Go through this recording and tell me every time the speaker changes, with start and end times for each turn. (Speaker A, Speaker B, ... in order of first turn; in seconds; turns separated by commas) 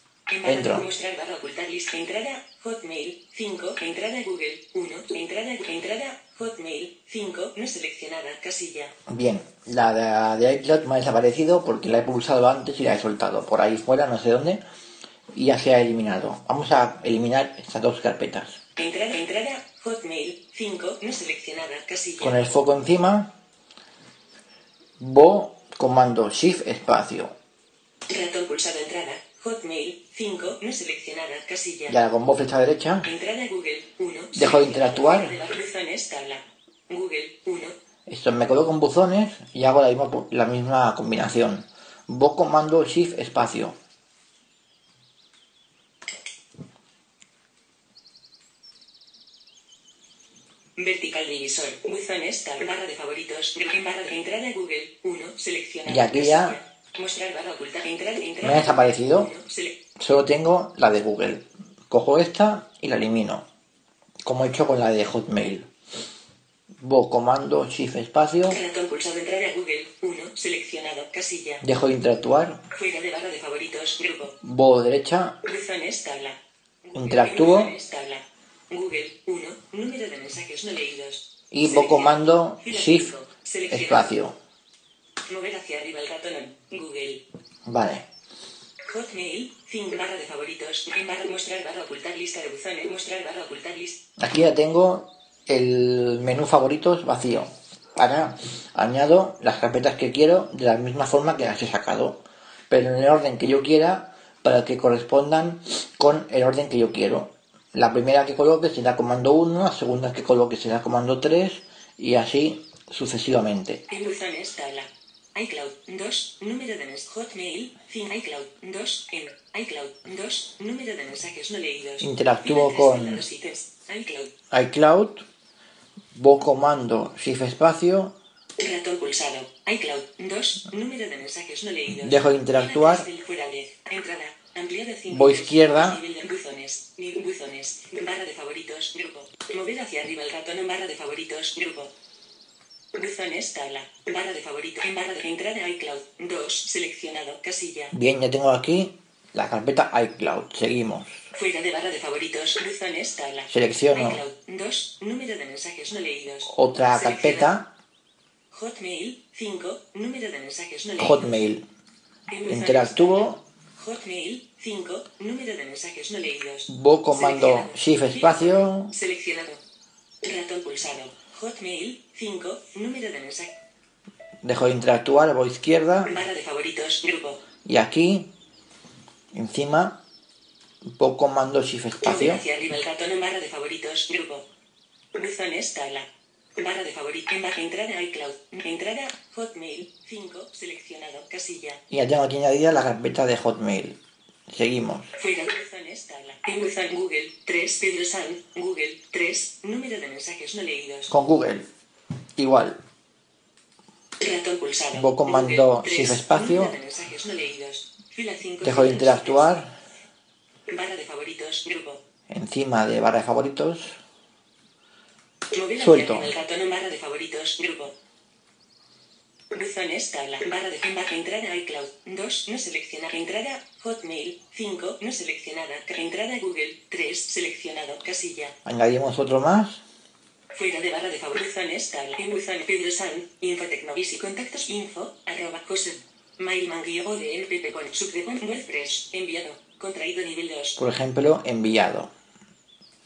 Speaker A: 0.3-8.9, Speaker B: 0.5-0.9, Speaker B: 9.1-14.6, Speaker B: 15.3-18.6, Speaker A: 18.8-22.5, Speaker B: 22.2-23.3, Speaker B: 25.0-27.3, Speaker A: 28.1-32.0, Speaker B: 31.9-33.1, Speaker A: 33.0-37.8, Speaker B: 34.4-35.4, Speaker B: 38.1-43.8, Speaker A: 50.8-59.8, Speaker B: 55.9-56.6, Speaker B: 58.4-59.3, Speaker B: 60.0-63.5, Speaker B: 64.2-65.7, Speaker B: 66.8-68.6, Speaker A: 68.5-71.6, Speaker B: 71.6-72.6, Speaker A: 72.7-74.4, Speaker B: 74.4-75.4, Speaker A: 75.4-84.1, Speaker B: 76.9-77.8, Speaker B: 81.5-83.2, Speaker B: 83.7-84.3, Speaker A: 85.3-87.2, Speaker B: 87.7-88.1, Speaker A: 88.8-94.0, Speaker B: 94.2-113.8, Speaker A: 113.9-124.3, Speaker B: 122.0-123.2, Speaker B: 124.5-125.3, Speaker B: 126.1-128.1, Speaker A: 128.6-141.9, Speaker B: 131.9-133.1, Speaker B: 135.1-136.0, Speaker A: 142.9-147.9, Speaker B: 147.9-151.2, Speaker A: 151.3-157.6, Speaker B: 153.5-154.2, Speaker B: 156.5-157.7, Speaker A: 158.5-161.4, Speaker B: 161.0-161.6, Speaker A: 162.3-169.6, Speaker B: 162.5-163.4, Speaker B: 166.7-169.0, Speaker A: 170.2-173.5, Speaker B: 174.4-176.3, Speaker A: 176.1-177.4, Speaker B: 177.7-178.3, Speaker B: 179.3-180.0, Speaker B: 180.9-182.4, Speaker A: 182.0-184.5, Speaker A: 185.2-191.8, Speaker B: 191.9-194.0, Speaker B: 194.5-195.1, Speaker A: 195.2-201.2, Speaker B: 201.1-201.7, Speaker B: 202.4-202.8, Speaker A: 204.2-209.6, Speaker B: 204.9-206.8, Speaker B: 208.6-209.7, Speaker A: 210.7-212.0, Speaker B: 212.3-214.0, Speaker A: 215.5-217.9, Speaker B: 215.8-216.3, Speaker A: 219.5-228.6, Speaker B: 228.7-229.8, Speaker A: 230.5-240.8, Speaker B: 240.8-242.1